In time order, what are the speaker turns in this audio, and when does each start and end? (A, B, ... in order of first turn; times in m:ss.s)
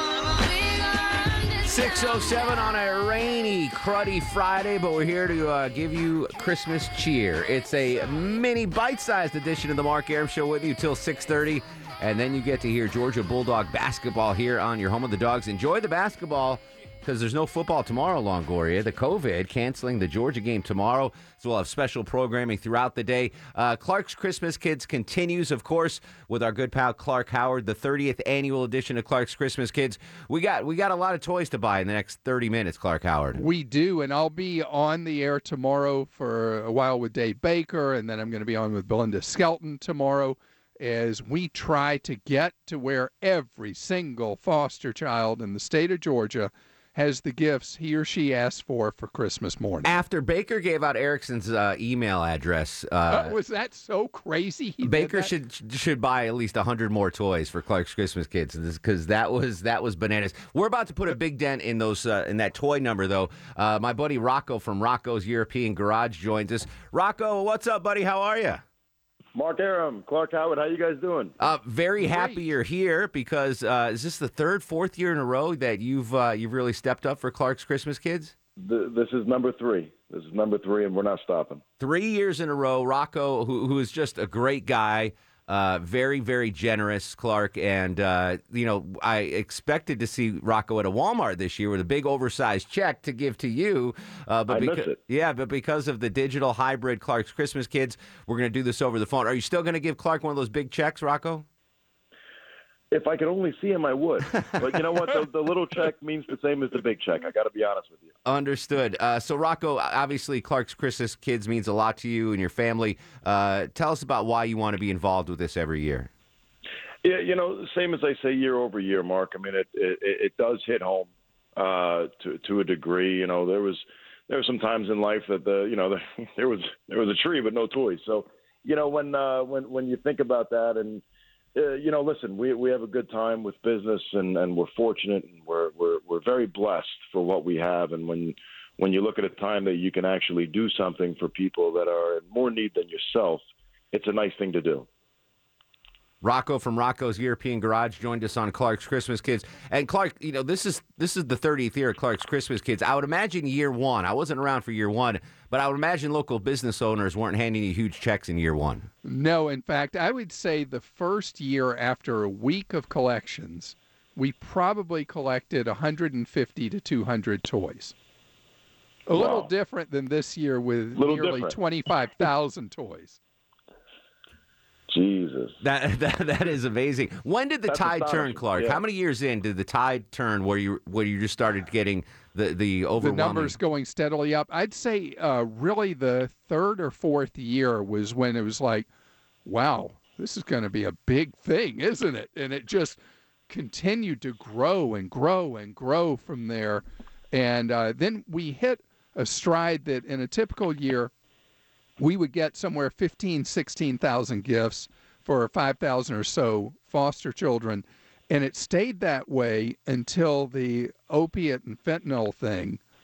0:01.4-0:33.4 A
0:33.4-0:50.0 B
0:49.8-0:53.4 A
0:53.1-0:55.3 B
0:54.8-1:08.6 A
1:09.3-1:11.4 C
1:11.4-1:18.3 A
1:12.0-1:12.4 B
1:18.6-1:21.6 C
1:21.8-1:41.5 A
1:34.5-1:35.0 C
1:42.9-1:48.1 C
1:48.2-1:56.1 A
1:57.0-2:11.0 C
2:11.5-2:23.4 C
2:23.9-2:24.9 C
2:26.2-2:38.9 A
2:39.0-2:47.9 B
2:49.1-2:53.2 B
2:49.1-2:49.5 C
2:51.0-2:51.6 C
2:54.9-2:55.5 C
2:55.6-3:03.5 A
2:57.7-2:58.8 C
3:03.0-3:08.9 B
3:09.4-3:21.1 B
3:22.0-3:32.8 B